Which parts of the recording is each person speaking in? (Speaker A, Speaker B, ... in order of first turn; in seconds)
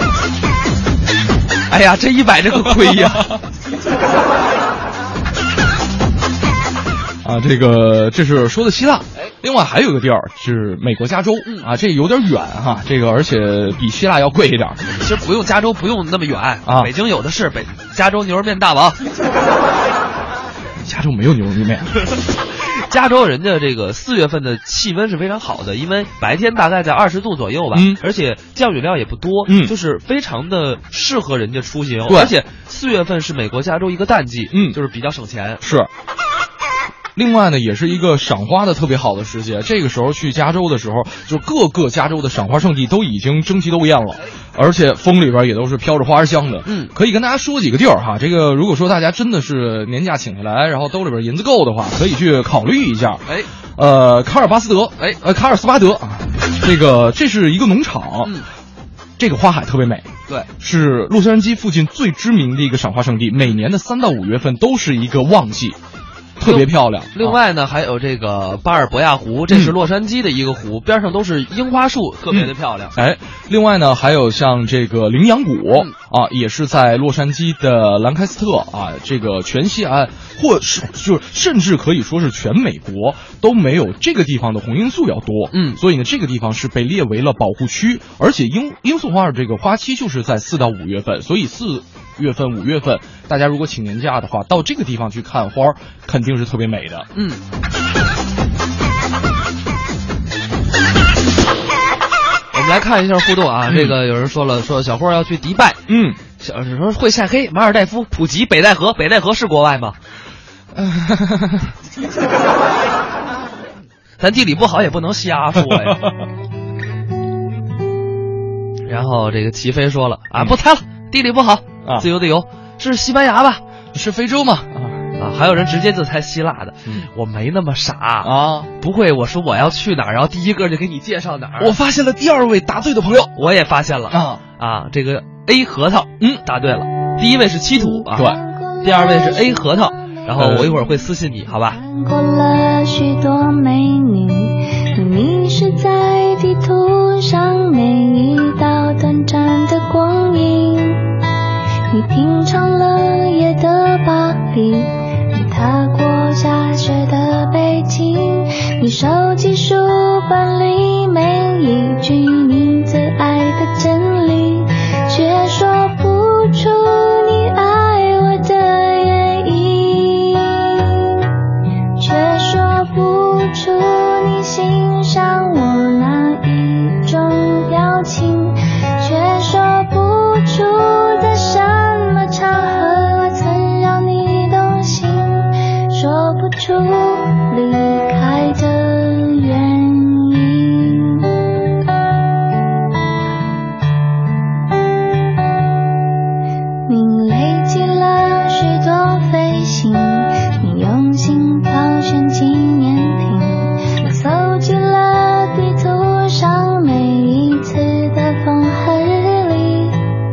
Speaker A: 1.7-3.4, 11.4-11.7, 14.9-19.0, 22.6-35.6, 46.7-46.9, 66.4-73.0, 85.5-85.8, 97.2-97.4, 102.5-110.0, 114.2-116.1, 118.9-123.6, 125.2-131.8, 133.4-141.8
Speaker B: 7.2-14.9, 16.6-16.9, 20.8-22.1, 27.7-28.0, 29.5-29.8, 32.1-32.4, 34.5-34.8, 35.6-35.9, 37.1-58.4, 59.2-65.8, 66.4-67.4, 69.5-69.8, 72.3-97.1, 103.7-104.0, 105.9-106.2, 110.8-111.7, 115.6-116.1, 123.9-125.1, 128.2-128.7, 131.6-133.4, 134.1-134.4, 138.1-138.4, 140.4-140.8
Speaker C: 138.1-141.0, 141.7-151.1, 151.9-171.3, 172.0-191.3, 196.9-210.0